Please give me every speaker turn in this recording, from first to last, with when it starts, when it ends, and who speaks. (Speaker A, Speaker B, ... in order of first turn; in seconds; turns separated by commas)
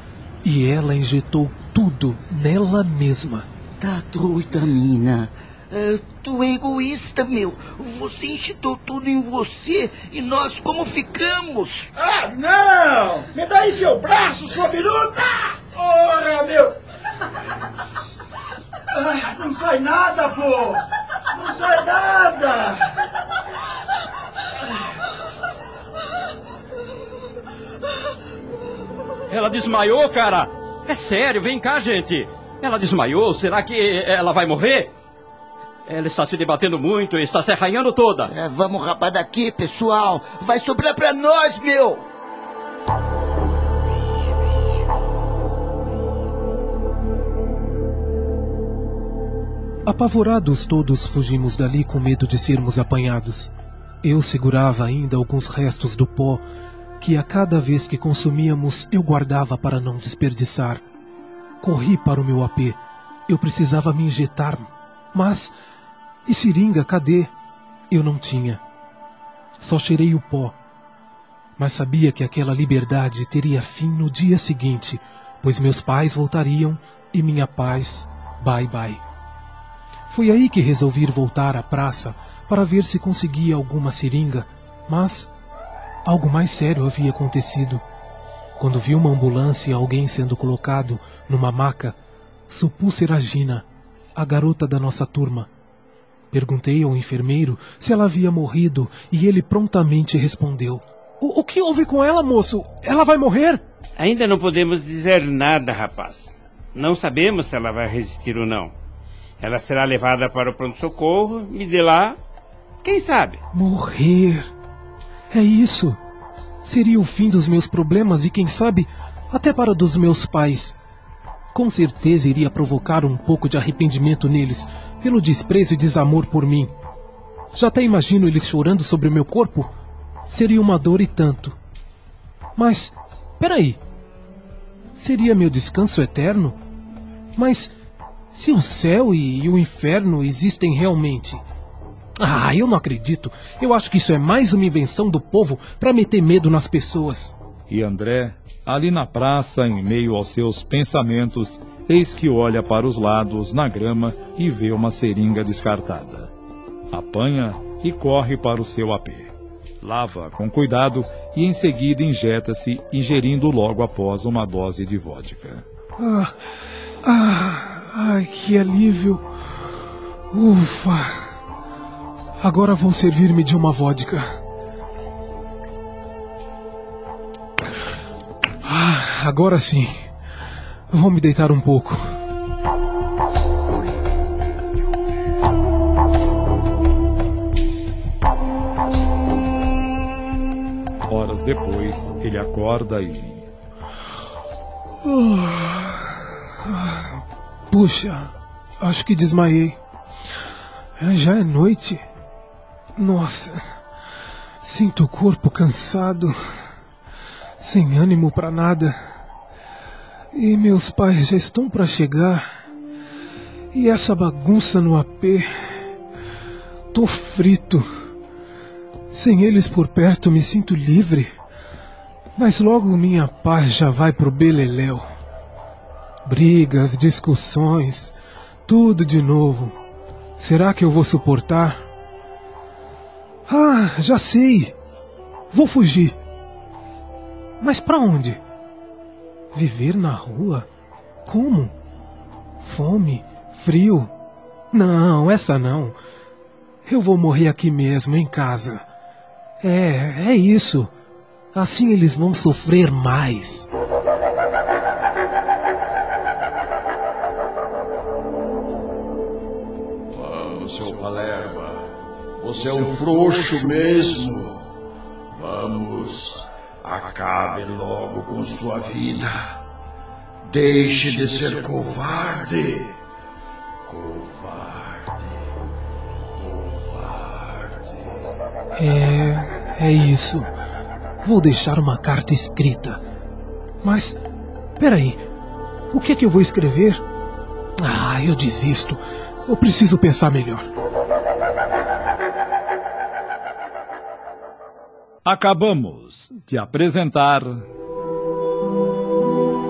Speaker A: 0.4-3.5, Speaker B: 3.8-11.9, Speaker C: 11.9-16.8, Speaker C: 18.9-22.9, Speaker D: 29.3-34.9, Speaker D: 35.9-38.3, Speaker B: 38.3-42.0, Speaker A: 49.9-53.5, Speaker A: 54.0-56.4, Speaker A: 57.0-60.8, Speaker A: 61.6-65.5, Speaker A: 66.2-67.3, Speaker A: 67.9-68.6, Speaker A: 69.6-70.5, Speaker A: 71.6-79.0, Speaker A: 80.1-85.3, Speaker A: 86.0-87.8, Speaker A: 88.6-92.0, Speaker A: 92.5-93.6, Speaker A: 94.2-95.5, Speaker A: 96.3-103.6, Speaker E: 104.0-108.8, Speaker E: 109.4-112.2, Speaker E: 112.8-113.4, Speaker A: 113.5-114.5, Speaker A: 115.3-116.0, Speaker A: 116.6-120.8, Speaker A: 121.5-126.7, Speaker A: 127.5-129.7, Speaker A: 130.3-131.6, Speaker A: 132.6-133.8, Speaker A: 134.9-136.6, Speaker A: 137.4-137.7, Speaker A: 138.3-141.4, Speaker A: 142.2-147.3, Speaker F: 147.7-156.3, Speaker F: 156.9-165.6, Speaker A: 166.0-166.3, Speaker A: 167.0-169.3, Speaker A: 170.3-171.3, Speaker A: 172.4-174.2, Speaker A: 178.6-180.1, Speaker A: 180.9-182.0, Speaker F: 191.1-193.5, Speaker A: 195.0-196.1, Speaker A: 196.6-197.2, Speaker A: 197.7-199.8, Speaker A: 201.0-202.0, Speaker A: 203.0-203.6, Speaker A: 204.6-206.4, Speaker A: 207.6-209.0, Speaker A: 210.3-212.5, Speaker A: 213.7-215.8, Speaker A: 216.9-217.9, Speaker A: 219.1-221.3, Speaker A: 222.4-225.1, Speaker A: 226.2-228.1, Speaker A: 228.7-229.8, Speaker A: 230.4-231.8, Speaker A: 233.5-234.7, Speaker A: 235.5-236.2, Speaker A: 237.6-238.4, Speaker A: 239.5-240.7, Speaker A: 241.2-241.7, Speaker A: 242.6-244.1, Speaker A: 244.7-246.0, Speaker A: 246.9-248.9, Speaker A: 249.6-250.9, Speaker A: 251.5-253.7, Speaker C: 260.1-261.8, Speaker C: 262.4-264.6, Speaker C: 265.3-269.6, Speaker C: 270.5-272.9, Speaker C: 273.9-275.3, Speaker C: 276.4-277.9, Speaker A: 278.8-280.5, Speaker A: 281.2-283.0, Speaker A: 283.8-284.2, Speaker A: 284.8-285.2, Speaker A: 285.9-287.0, Speaker A: 287.8-290.6, Speaker F: 295.2-297.6